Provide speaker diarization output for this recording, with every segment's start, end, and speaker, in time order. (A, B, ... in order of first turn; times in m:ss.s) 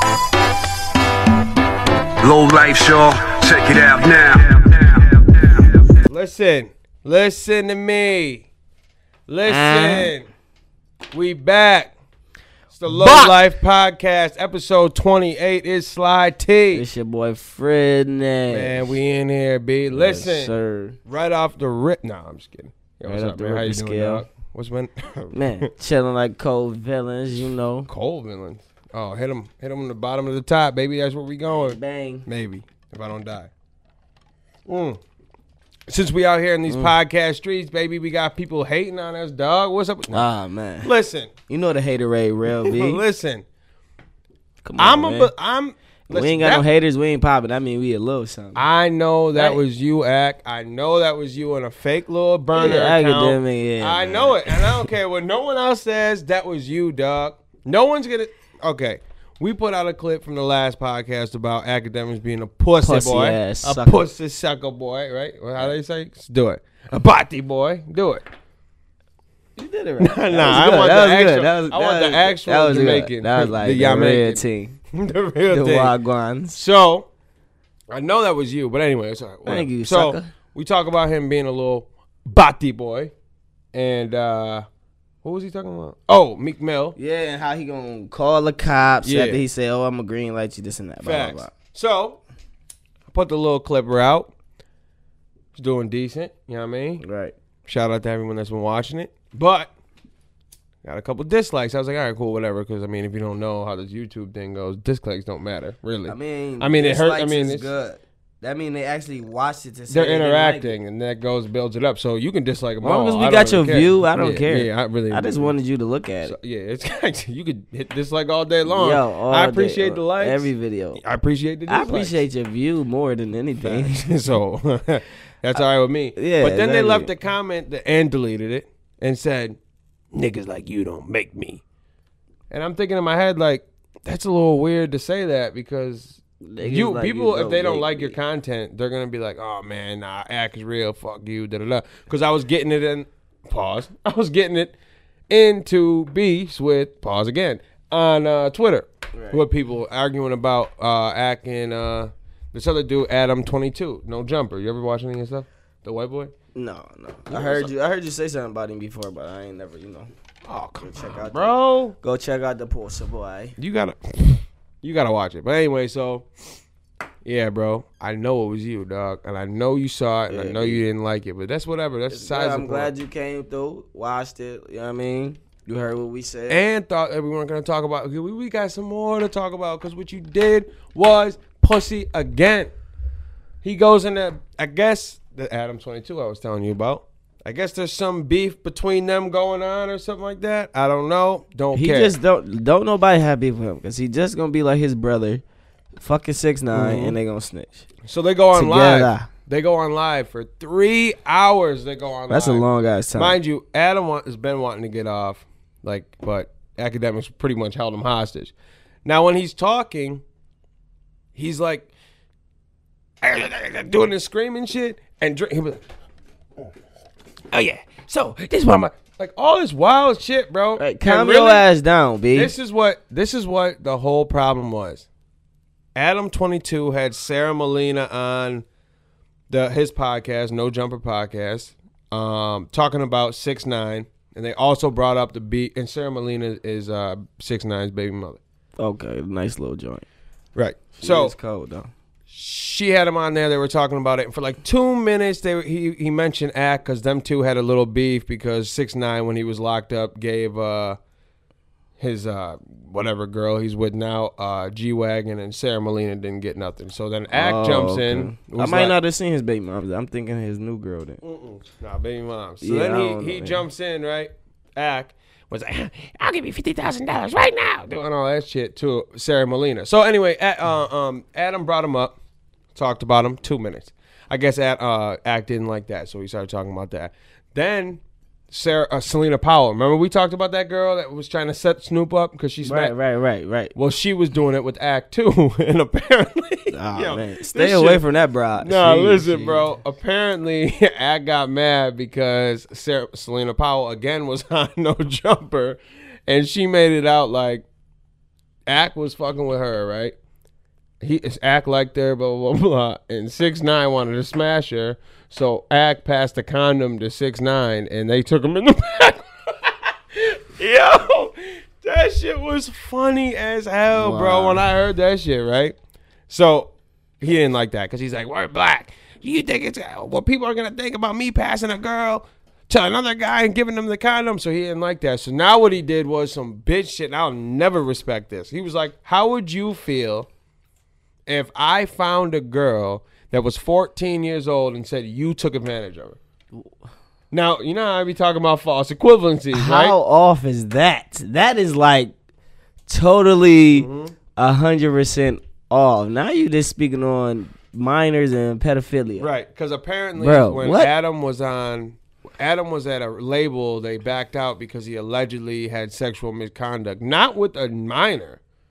0:02.2-0:04.3 A
0:06.0-0:08.5 B
0:09.3-0:10.3 B
0:09.4-0:10.1 C
0:11.1-0:11.9 B
0:12.8-0:16.8 B
0:16.7-0:18.9 C
0:18.5-0:20.5 B
0:19.9-0:21.0 C
0:21.0-0:25.7 B
0:23.1-0:24.2 C
0:25.3-0:27.9 C
0:27.9-0:33.5 B
0:31.5-0:32.2 C
0:34.7-0:35.0 B
0:35.9-0:40.3 B
0:36.7-0:36.9 C
0:40.1-0:40.9 C
0:40.8-0:41.3 B
0:41.5-0:43.0 C
0:42.6-0:43.4 B
0:44.6-0:45.3 C
0:44.8-0:46.6 B
0:46.1-0:48.6 C
0:48.5-1:08.2 B
0:49.3-0:49.6 C
0:52.5-0:54.8 C
1:02.8-1:04.0 C
1:09.6-1:14.8 C
1:10.0-1:15.9 B
1:15.5-1:16.6 C
1:16.5-1:17.1 B
1:17.9-1:23.1 B
1:19.4-1:20.3 C
1:23.7-1:24.6 B
1:25.2-1:27.0 B
1:27.0-1:31.5 C
1:29.0-1:29.4 B
1:31.0-1:32.2 B
1:33.1-1:34.3 B
1:35.5-1:37.0 B
1:37.0-1:37.3 C
1:37.7-1:39.7 B
1:40.8-1:47.7 B
1:46.1-1:50.7 C
1:49.9-1:55.5 B
1:52.8-1:56.4 C
1:56.2-2:02.2 B
1:58.7-2:01.0 C
2:01.7-2:04.1 C
2:03.6-2:09.6 B
2:06.2-2:07.1 C
2:10.1-2:11.6 B
2:12.5-2:24.7 B
2:16.4-2:18.2 C
2:25.3-2:36.3 B
2:29.1-2:29.4 C
2:36.5-2:40.1 C
2:37.3-2:37.7 B
2:40.4-2:42.0 B
2:40.8-2:43.5 C
2:43.6-2:46.3 B
2:47.2-2:52.9 B
2:50.3-2:50.8 C
2:52.1-2:56.6 C
2:56.5-3:02.7 B
3:03.6-3:12.2 B
3:11.7-3:15.4 C
3:16.0-3:17.9 C
3:16.7-3:17.2 B
3:18.0-3:22.6 B
3:18.5-3:19.3 C
3:22.3-3:23.4 C
3:23.2-3:28.5 B
3:29.0-3:30.2 B
3:31.4-3:31.9 B
3:33.2-3:35.8 B
3:37.5-3:41.6 B
3:40.8-3:42.5 C
3:42.3-3:45.0 B
3:45.9-3:48.6 B
3:49.5-3:58.4 B
3:58.8-4:00.0 C
4:00.6-4:01.3 B
4:01.0-4:01.9 C
4:02.3-4:11.0 B
4:12.0-4:19.0 B
4:17.3-4:21.2 C
4:21.2-4:32.2 B
4:22.6-4:23.6 C
4:32.7-4:42.9 B
4:42.6-4:43.7 C
4:43.7-4:48.0 B
4:46.7-4:49.6 C
4:48.6-4:57.6 B
4:58.7-5:00.1 B
5:01.0-5:15.7 B
5:13.9-5:14.6 C
5:16.3-5:30.3 B
5:31.3-5:36.2 B
5:37.3-5:40.0 B
5:39.5-5:42.1 C
5:42.9-5:49.3 C
5:43.7-5:44.1 B
5:49.2-5:58.4 B
5:50.2-5:50.9 C